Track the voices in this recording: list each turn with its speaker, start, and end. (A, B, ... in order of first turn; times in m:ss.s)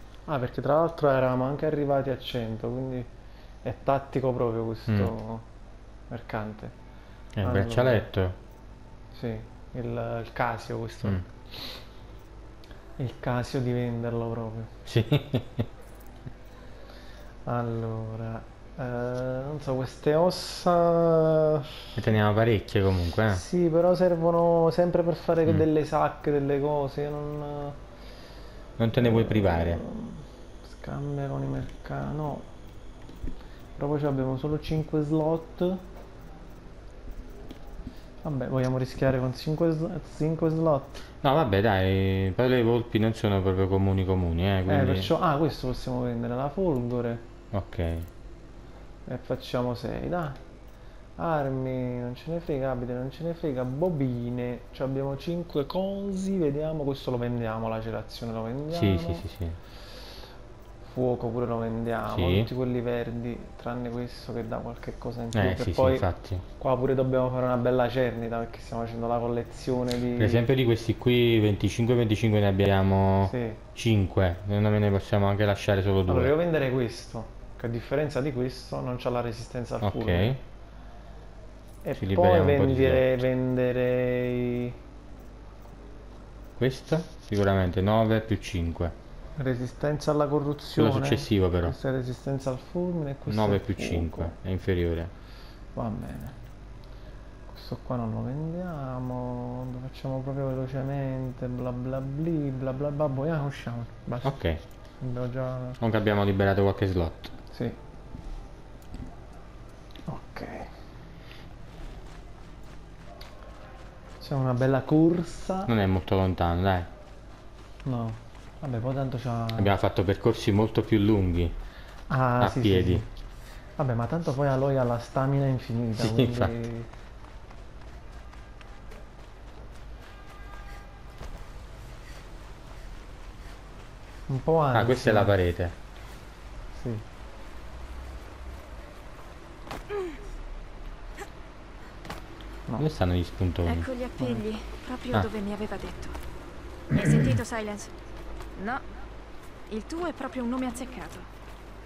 0:00.2-0:03.1 A
0:03.6-0:05.5 A
0:04.9-0:05.1 B
0:06.1-0:06.8 A
0:07.4-0:08.4 B
0:07.4-0:08.0 A
0:09.1-0:11.8 A
0:13.0-0:14.7 A
0:14.8-0:15.7 B
0:17.4-0:21.7 A
0:22.0-0:23.4 B
0:23.3-0:27.8 A
0:28.8-0:29.8 B
0:28.9-0:32.5 A
0:33.8-0:35.8 A
0:38.2-0:41.0 A
0:41.2-0:45.1 B
0:44.7-0:47.2 A
0:47.5-0:48.1 B
0:49.0-0:50.4 A
0:51.2-0:59.2 A
0:58.7-0:59.6 B
1:00.8-1:10.4 A
1:02.1-1:02.5 B
1:05.3-1:06.4 B
1:10.2-1:16.3 B
1:13.2-1:13.6 A
1:16.1-1:20.4 A
1:19.8-1:20.4 B
1:21.8-1:24.7 A
1:22.0-1:23.2 B
1:26.6-1:29.0 B
1:29.4-1:34.4 A
1:30.8-1:31.8 B
1:33.3-1:35.1 B
1:35.7-1:36.4 A
1:37.5-1:44.4 A
1:44.2-1:44.6 B
1:45.0-1:45.8 A
1:45.8-1:47.3 B
1:47.5-1:47.8 A
1:50.1-1:50.7 A
1:54.2-1:55.7 A
1:55.6-1:56.9 B
1:57.8-1:59.7 A
1:59.6-2:01.6 B
2:02.1-2:03.1 A
2:02.4-2:03.0 B
2:03.8-2:06.9 A
2:06.0-2:06.6 B
2:14.3-2:15.3 A
2:14.7-2:15.8 B
2:16.7-2:17.0 A
2:22.8-2:23.9 B
2:23.6-2:26.2 C
2:24.2-2:24.4 A
2:26.9-2:27.9 C
2:28.5-2:28.8 C
2:29.7-2:31.3 C